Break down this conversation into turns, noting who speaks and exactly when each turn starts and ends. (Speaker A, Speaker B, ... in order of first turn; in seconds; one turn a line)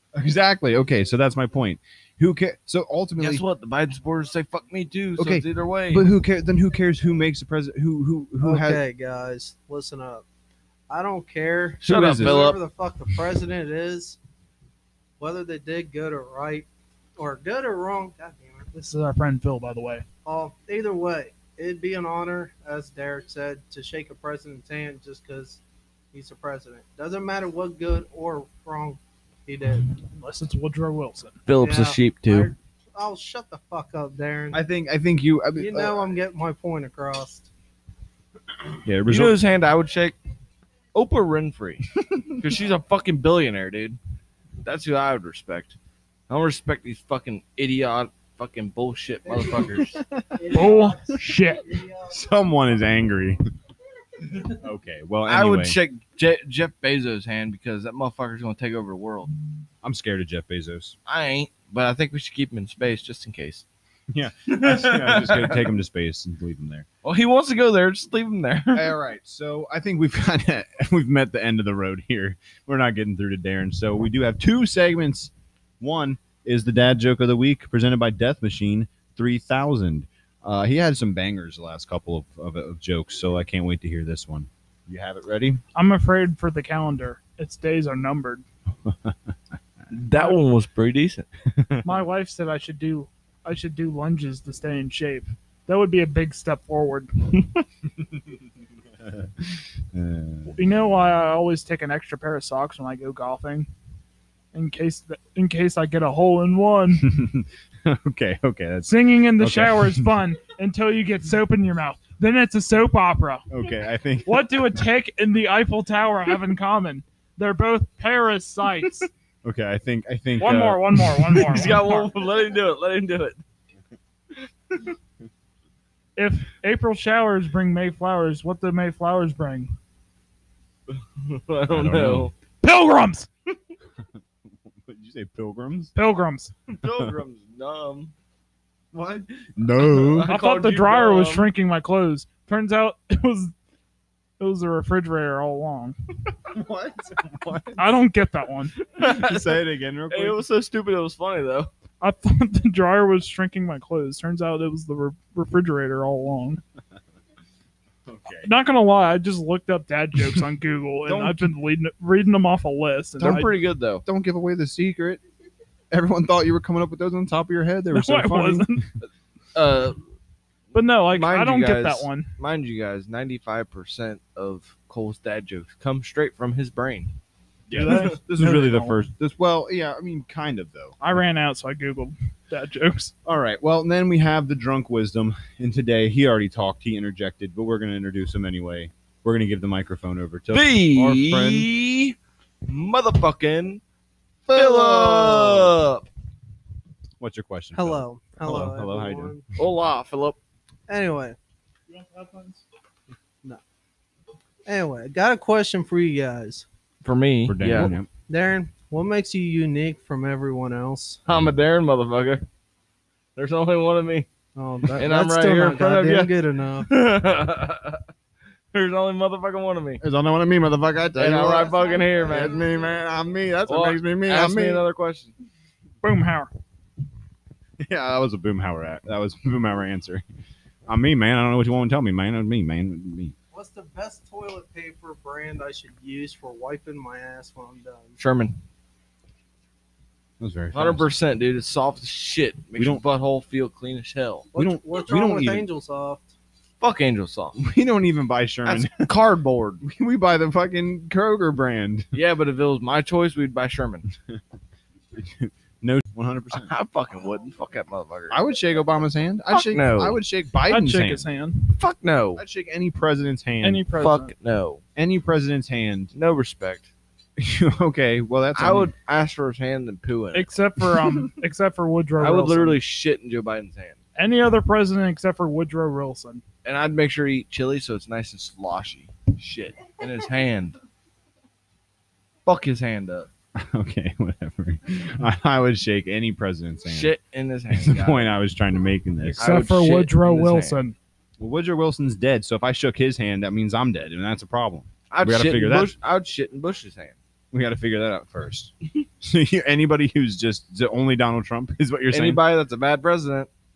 Speaker A: 0.1-3.4
Speaker B: 3.2-6.1
Speaker A: 5.2-8.8
Speaker C: 8.4-10.2
Speaker C: 10.9-14.2
Speaker B: 11.8-12.6
Speaker A: 11.8-12.4
Speaker C: 15.2-18.7
Speaker D: 18.7-20.0
Speaker C: 20.2-25.6
Speaker C: 26.1-29.9
Speaker D: 30.1-31.4
Speaker B: 31.5-32.5
Speaker C: 31.6-34.6
Speaker A: 34.5-36.1
Speaker C: 35.5-37.5
Speaker A: 38.8-39.4
Speaker B: 39.1-40.1
Speaker B: 40.9-44.0
Speaker A: 42.0-42.4
Speaker B: 44.6-45.8
Speaker B: 46.3-50.0
Speaker C: 50.4-52.1
Speaker D: 50.5-51.8
Speaker A: 52.0-53.4
Speaker A: 54.4-55.8
Speaker B: 55.3-59.3
Speaker A: 59.8-61.0
Speaker B: 61.0-63.6
Speaker A: 64.1-66.8
Speaker B: 64.5-65.7
Speaker B: 67.0-68.9
Speaker A: 68.7-85.6
Speaker D: 85.7-88.4
Speaker A: 88.9-89.1
Speaker B: 89.9-91.3
Speaker A: 91.5-91.9
Speaker D: 91.8-97.6
Speaker A: 99.0-100.6
Speaker D: 100.5-103.7
Speaker D: 104.5-107.1
Speaker A: 107.0-110.1
Speaker D: 108.8-113.5
Speaker A: 113.5-114.7
Speaker D: 114.2-119.1
Speaker A: 119.4-121.5
Speaker D: 120.4-122.1
Speaker B: 121.3-123.4
Speaker D: 126.2-129.7
Speaker B: 130.9-132.3
Speaker A: 131.7-132.3
Speaker D: 132.6-133.3
Speaker A: 134.8-135.9
Speaker D: 135.9-136.5
Speaker B: 136.7-138.1
Speaker A: 136.9-137.2
Speaker A: 138.9-140.3
Speaker B: 139.8-141.5
Speaker D: 140.2-143.5
Speaker D: 144.4-145.9
Speaker A: 146.5-147.9
Speaker D: 147.8-148.7
Speaker B: 148.8-151.7
Speaker A: 149.0-150.4
Speaker D: 152.0-156.6
Speaker A: 158.1-158.5
Speaker D: 158.4-163.5
Speaker B: 161.1-161.4
Speaker A: 163.2-163.4
Speaker B: 163.2-164.0
Speaker A: 164.0-165.2
Speaker A: 165.9-168.8
Speaker D: 167.9-168.8
Speaker B: 169.0-170.0
Speaker D: 170.7-172.3
Speaker B: 170.9-177.1
Speaker A: 177.7-181.0
Speaker D: 177.7-179.0
Speaker B: 177.8-178.1
Speaker D: 181.0-183.1
Speaker A: 183.2-191.7
Speaker B: 190.5-193.8
Speaker C: 194.5-195.7
Speaker B: 194.5-196.1
Speaker A: 197.2-199.4
Speaker C: 197.7-199.4
Speaker B: 199.6-200.4
Speaker C: 200.9-201.4
Speaker D: 201.9-202.6
Speaker C: 204.6-206.7
Speaker B: 207.0-207.9
Speaker A: 207.4-208.1
Speaker C: 208.3-211.2
Speaker B: 211.2-212.4
Speaker B: 213.3-214.3
Speaker C: 214.5-216.9
Speaker B: 214.9-218.0
Speaker B: 218.7-220.0
Speaker A: 220.0-224.8
Speaker B: 221.1-222.6
Speaker C: 221.6-222.9
Speaker B: 223.7-225.3
Speaker D: 226.0-226.5
Speaker A: 227.8-230.2
Speaker A: 230.9-233.3
Speaker C: 233.5-238.2
Speaker B: 238.2-238.6
Speaker A: 240.4-241.1
Speaker B: 240.7-244.5
Speaker A: 242.8-243.0
Speaker C: 244.5-246.3
Speaker A: 244.5-245.7
Speaker B: 246.8-247.6
Speaker A: 247.6-249.1
Speaker B: 248.6-249.8
Speaker A: 249.8-252.1
Speaker B: 252.1-254.1
Speaker A: 255.1-256.7
Speaker B: 256.5-258.4
Speaker A: 258.3-261.2
Speaker B: 259.5-260.2
Speaker D: 260.6-261.7
Speaker B: 261.7-262.4
Speaker A: 262.4-263.9
Speaker D: 263.6-264.3
Speaker B: 263.9-264.8
Speaker A: 264.9-266.1
Speaker B: 266.1-266.9
Speaker A: 267.4-268.9
Speaker B: 268.6-271.1
Speaker D: 270.3-272.8
Speaker B: 272.2-274.0
Speaker D: 274.1-276.4
Speaker B: 276.6-280.8
Speaker B: 282.4-283.3
Speaker A: 283.5-287.1
Speaker B: 286.8-288.3
Speaker A: 287.7-289.7
Speaker B: 289.3-290.8
Speaker D: 289.4-290.9
Speaker A: 291.4-295.9
Speaker B: 295.1-297.1
Speaker A: 297.5-302.4
Speaker B: 302.1-303.5